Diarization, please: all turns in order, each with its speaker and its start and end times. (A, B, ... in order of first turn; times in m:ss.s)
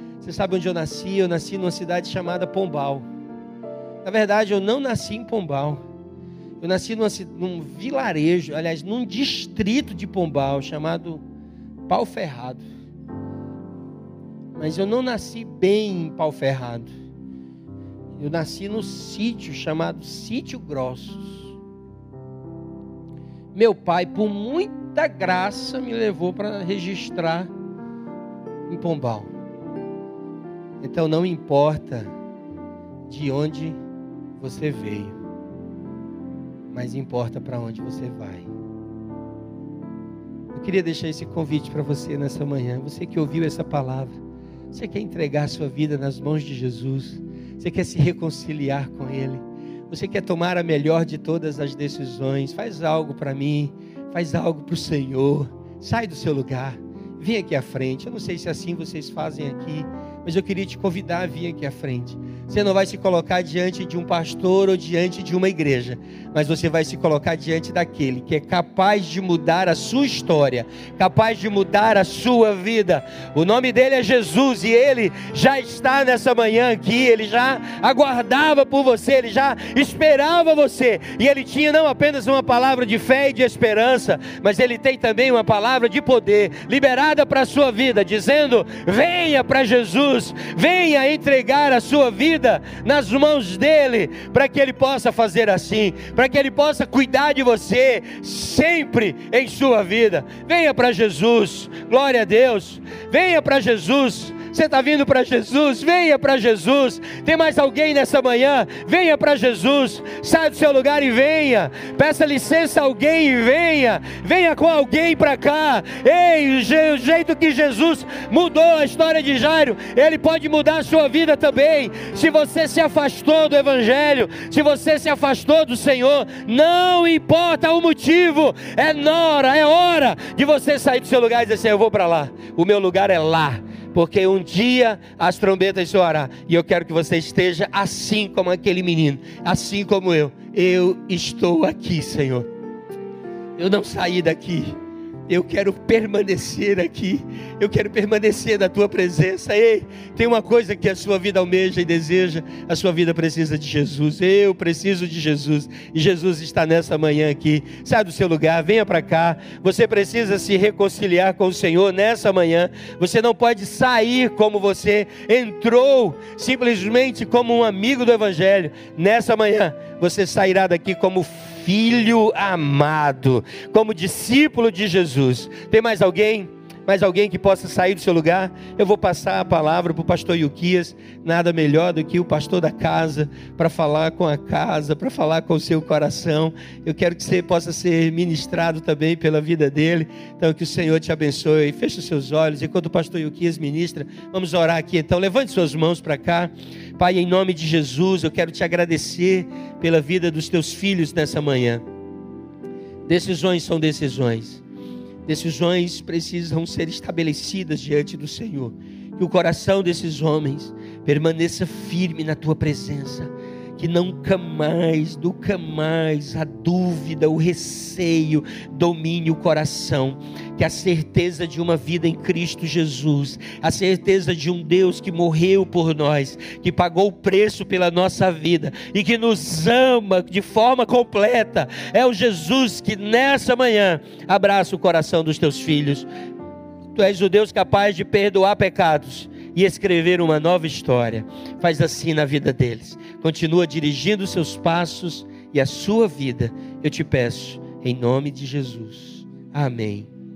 0:00.2-0:03.0 A
0:04.0-0:05.8 A
0:06.6-0:11.2 A
0:11.9-0:12.6 A
0:14.5-0:16.9 A
0:18.2-0:21.5 A
0:23.5-0:27.5 A
0:28.7-0:29.3 A
0:30.8-0:32.1 A
0:33.1-0:33.8 A
0:34.4-0:35.2 A
0:36.7-0:38.5 A
0:40.5-0:44.2 A
0:44.7-2:22.5 A
2:23.6-2:24.7 A
2:25.3-3:21.8 A
3:23.1-3:24.6 A
3:25.2-3:56.0 A
3:56.9-4:10.1 A